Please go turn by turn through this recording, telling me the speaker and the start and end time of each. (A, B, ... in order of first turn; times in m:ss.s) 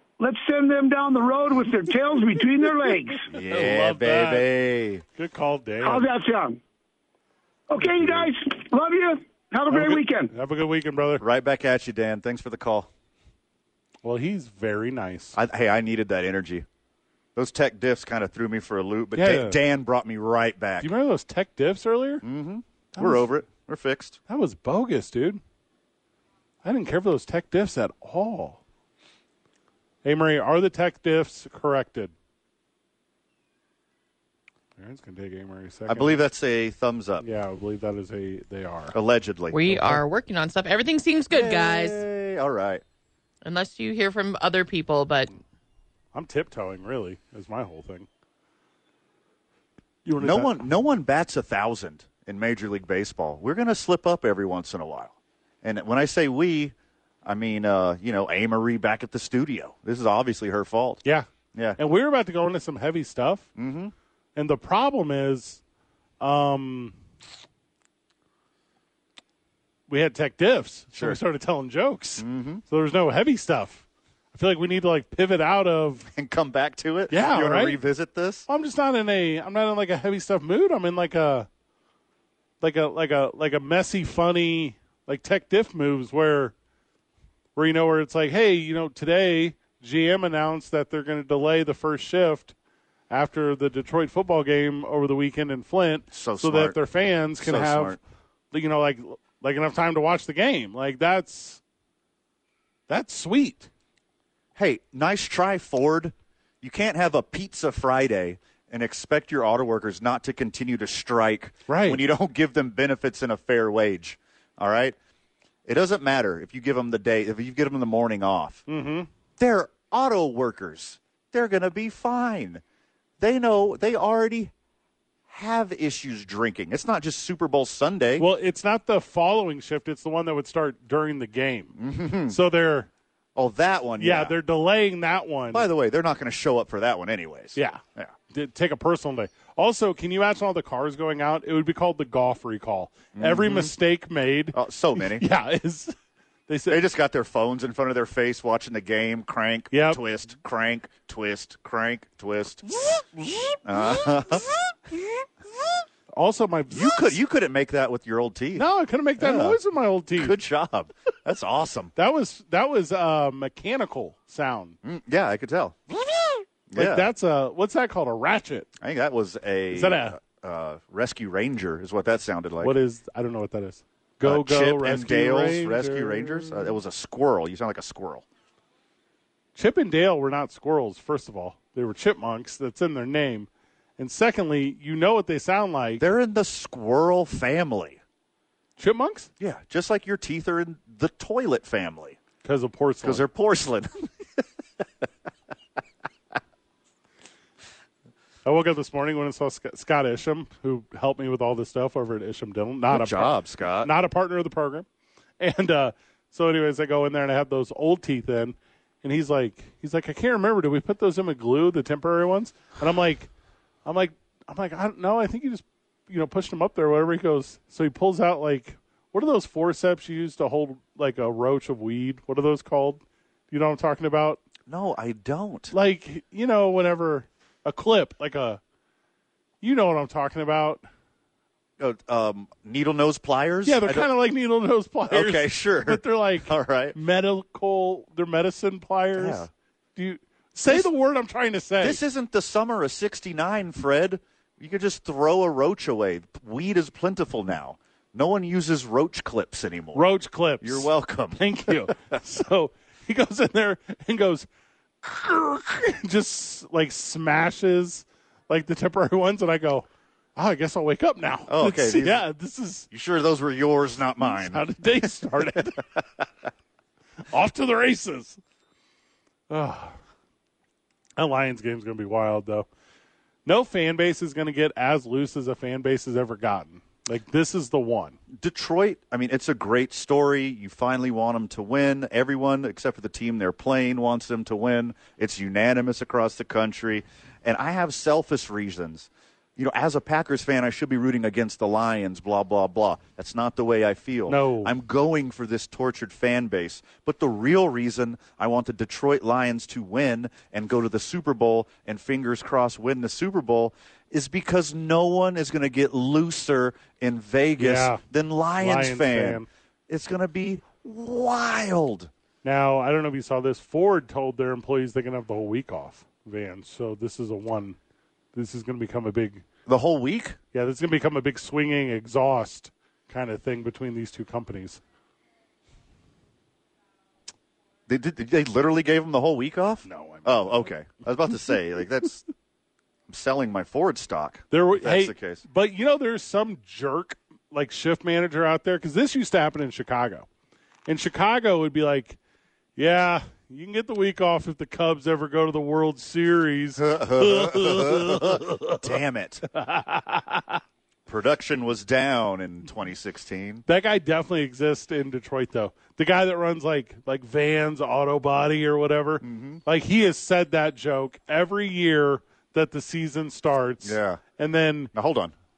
0:00.2-0:03.2 A
0:03.3-0:04.5 B
0:03.3-0:05.0 C
0:05.1-0:06.1 B
0:05.8-0:06.6 A
0:07.7-0:10.3 A
0:07.8-0:08.3 B
0:09.7-0:11.2 B
0:11.2-0:12.9 C
0:14.0-0:15.4 B
0:15.3-0:16.6 C
0:17.3-0:20.9 C
0:19.1-0:19.6 B
0:20.8-0:22.2 B
0:22.2-0:24.2 C
0:23.0-0:23.3 B
0:24.3-0:25.4 B
0:26.6-0:28.6 B
0:30.0-0:32.1 B
0:34.8-0:36.2 B
0:35.9-0:37.2 C
0:37.2-0:38.9 B
0:38.9-0:39.6 C
0:39.5-0:42.0 D
0:39.7-0:40.0 B
0:41.3-0:42.8 C
0:43.4-0:45.3 D
0:46.1-0:48.1 B
0:50.0-0:50.6 B
0:50.2-0:56.7 C
0:57.2-1:01.0 C
1:01.0-1:03.5 B
1:03.6-1:03.9 C
1:04.3-1:05.6 B
1:06.2-1:06.9 B
1:09.9-1:16.1 B
1:10.9-1:11.2 C
1:12.2-1:12.6 C
1:16.1-1:18.4 C
1:17.1-1:17.8 B
1:18.5-1:21.5 B
1:22.6-1:26.5 B
1:27.6-1:32.5 B
1:33.1-1:38.0 B
1:36.1-1:36.8 C
1:37.4-1:38.0 C
1:38.5-1:41.6 B
1:42.9-1:43.7 B
1:44.6-1:55.0 C
1:51.7-1:52.0 B
1:55.6-1:58.6 C
1:58.7-1:59.1 B
1:59.4-2:02.6 C
2:03.2-2:04.5 C
2:05.3-2:08.3 C
2:08.2-2:11.7 B
2:11.8-2:12.4 C
2:12.3-2:12.9 B
2:13.3-2:14.3 C
2:14.0-2:15.7 B
2:15.5-2:18.1 C
2:17.5-2:25.9 B
2:23.1-2:23.7 C
2:24.5-2:25.2 C
2:26.5-2:26.8 B
2:26.7-2:32.7 C
2:29.7-2:30.0 B
2:32.8-2:34.3 B
2:33.6-2:34.5 C
2:36.1-2:37.2 B
2:36.7-2:38.6 C
2:38.5-2:40.4 B
2:39.2-2:39.6 C
2:40.1-2:41.9 C
2:42.0-2:44.8 B
2:44.8-2:45.8 C
2:46.1-2:48.7 B
2:46.7-2:47.1 C
2:48.8-2:52.7 C
2:49.7-2:50.2 B
2:52.6-2:56.7 B
2:54.2-2:58.2 C
2:59.5-3:06.0 B
3:06.0-3:08.0 C
3:08.8-3:09.3 B
3:09.4-3:12.2 C
3:12.4-3:13.2 B
3:13.0-3:14.4 C
3:18.4-3:24.8 B
3:22.9-3:23.9 C
3:25.4-3:33.3 B
3:33.8-3:44.4 B
3:44.7-3:45.7 C
3:45.7-3:48.6 B
3:49.6-3:50.8 B
3:51.8-3:54.1 C
3:53.6-3:59.4 B
3:55.1-3:57.0 C
3:59.2-3:59.5 C
4:00.0-4:02.0 B
4:01.8-4:10.1 C
4:09.9-4:14.5 B
4:10.6-4:11.9 C
4:15.0-4:22.9 B
4:21.5-4:22.2 C
4:22.9-4:26.0 C
4:24.2-4:25.8 B
4:27.3-4:28.4 B
4:29.5-4:30.0 B
4:31.2-4:32.7 B
4:33.4-4:38.2 B
4:38.3-5:12.1 C
4:54.3-4:54.7 B
5:07.6-5:08.0 B
5:08.6-5:09.5 B
5:12.4-5:17.8 B
5:18.3-5:19.4 B
5:19.6-5:20.4 C
5:20.5-5:24.8 B
5:27.9-5:32.2 C
5:29.8-5:30.7 B
5:33.1-5:35.4 C
5:34.5-5:40.2 B
5:40.9-5:42.2 B
5:42.8-5:48.9 B
5:46.8-5:49.5 C
5:49.5-5:50.6 B
5:51.1-5:53.6 C
5:53.6-6:04.9 B
5:59.2-5:59.6 C
6:03.8-6:04.2 C
6:04.9-6:05.3 C